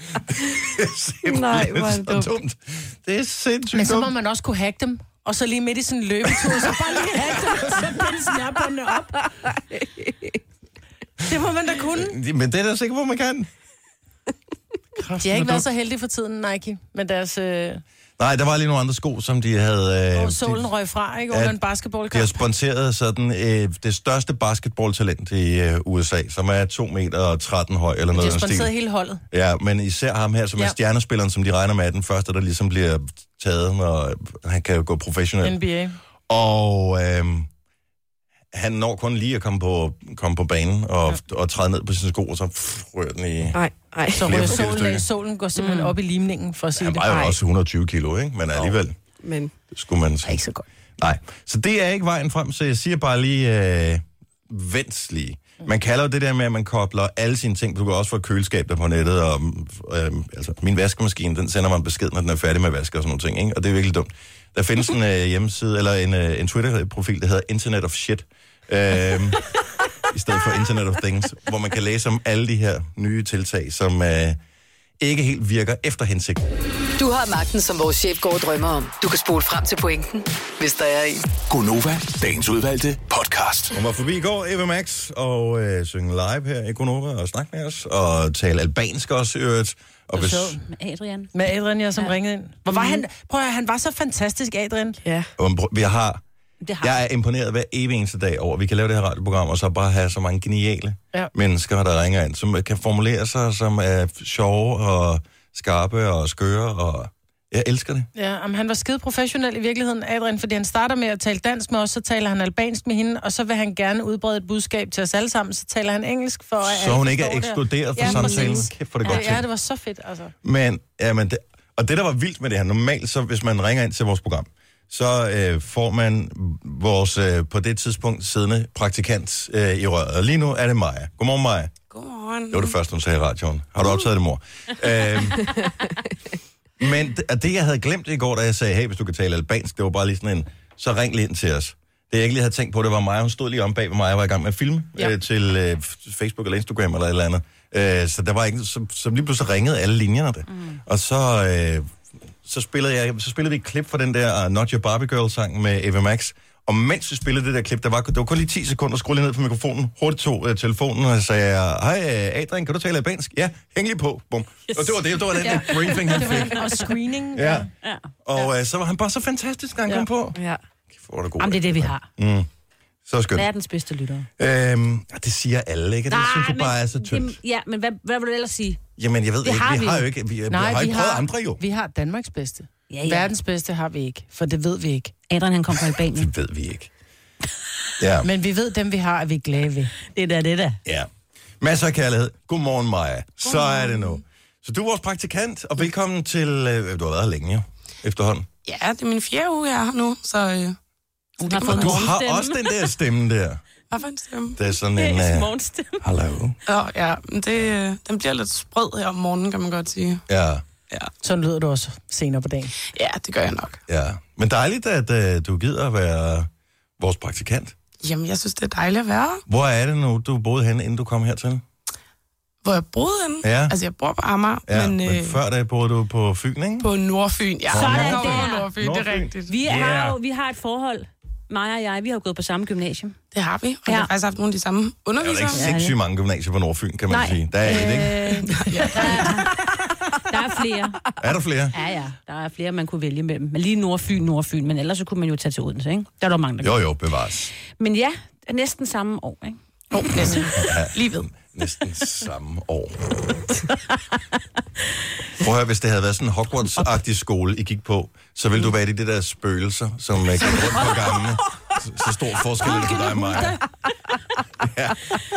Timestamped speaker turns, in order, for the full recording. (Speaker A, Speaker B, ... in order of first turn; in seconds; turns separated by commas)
Speaker A: 0.4-4.1, Speaker B: 1.2-2.4, Speaker C: 3.7-9.3, Speaker B: 9.5-10.4, Speaker C: 11.2-12.2, Speaker A: 11.9-13.5, Speaker A: 15.0-15.6, Speaker C: 15.1-17.8, Speaker A: 18.2-20.7, Speaker C: 20.1-22.4, Speaker A: 21.3-21.6, Speaker A: 22.1-28.7, Speaker C: 28.1-29.2, Speaker A: 29.3-35.5, Speaker C: 35.4-36.0, Speaker A: 36.3-37.5, Speaker A: 38.5-43.6, Speaker B: 43.5-44.6, Speaker C: 44.1-47.2, Speaker A: 44.2-45.1, Speaker B: 45.6-45.9, Speaker A: 46.8-49.0, Speaker B: 47.0-47.3, Speaker B: 49.2-49.5, Speaker A: 49.7-50.4, Speaker C: 50.2-50.6, Speaker A: 51.0-69.5, Speaker A: 70.0-74.4, Speaker A: 75.0-76.4, Speaker D: 77.0-81.2, Speaker E: 81.5-83.7, Speaker A: 83.7-90.6, Speaker C: 90.2-90.5, Speaker F: 90.3-91.3, Speaker C: 91.3-95.0, Speaker B: 95.0-95.3, Speaker A: 95.4-96.2, Speaker F: 96.6-97.0, Speaker A: 96.8-108.1, Speaker C: 108.1-120.3, Speaker A: 116.6-119.4, Speaker B: 118.0-118.7, Speaker A: 120.4-131.7, Speaker G: 131.9-132.8, Speaker A: 132.5-135.5, Speaker A: 136.8-151.9, Speaker F: 150.5-150.8, Speaker A: 152.4-166.7, Speaker F: 164.7-166.7, Speaker C: 166.1-167.7, Speaker A: 167.3-167.7, Speaker F: 167.8-168.1, Speaker A: 168.2-170.4, Speaker B: 170.3-170.6, Speaker A: 170.9-172.5, Speaker F: 171.4-172.1, Speaker A: 173.1-173.5, Speaker F: 173.3-174.3, Speaker A: 174.4-177.4, Speaker F: 176.1-178.8, Speaker A: 179.0-181.6, Speaker F: 179.4-180.1, Speaker C: 180.5-185.1, Speaker F: 182.9-183.3, Speaker F: 185.3-186.3, Speaker A: 185.7-186.9, Speaker A: 188.0-188.3, Speaker C: 188.2-189.9, Speaker F: 190.1-190.8, Speaker A: 191.6-198.5, Speaker G: 193.5-194.0, Speaker G: 198.6-200.8, Speaker F: 201.4-202.8, Speaker G: 201.4-202.1, Speaker A: 201.6-203.6, Speaker G: 203.9-204.6, Speaker A: 204.6-206.6, Speaker F: 204.9-206.0, Speaker G: 206.7-210.2, Speaker A: 210.3-210.6, Speaker C: 211.2-212.7, Speaker G: 212.8-213.8, Speaker A: 213.9-217.7, Speaker G: 218.0-219.4, Speaker A: 219.5-221.6, Speaker G: 222.6-225.4, Speaker A: 223.4-223.7, Speaker A: 224.7-226.9, Speaker G: 226.8-229.6, Speaker A: 227.7-230.2, Speaker F: 227.7-228.7, Speaker F: 229.5-233.2, Speaker G: 233.3-235.7, Speaker A: 235.2-238.3, Speaker F: 235.5-235.9, Speaker F: 237.1-239.6, Speaker G: 238.4-239.4, Speaker F: 240.1-241.2, Speaker A: 241.2-241.7, Speaker F: 241.7-246.8, Speaker A: 246.6-247.5, Speaker F: 247.7-250.3, Speaker G: 249.9-251.3, Speaker A: 250.5-253.4, Speaker A: 255.4-263.6, Speaker C: 262.6-263.6, Speaker A: 264.6-265.1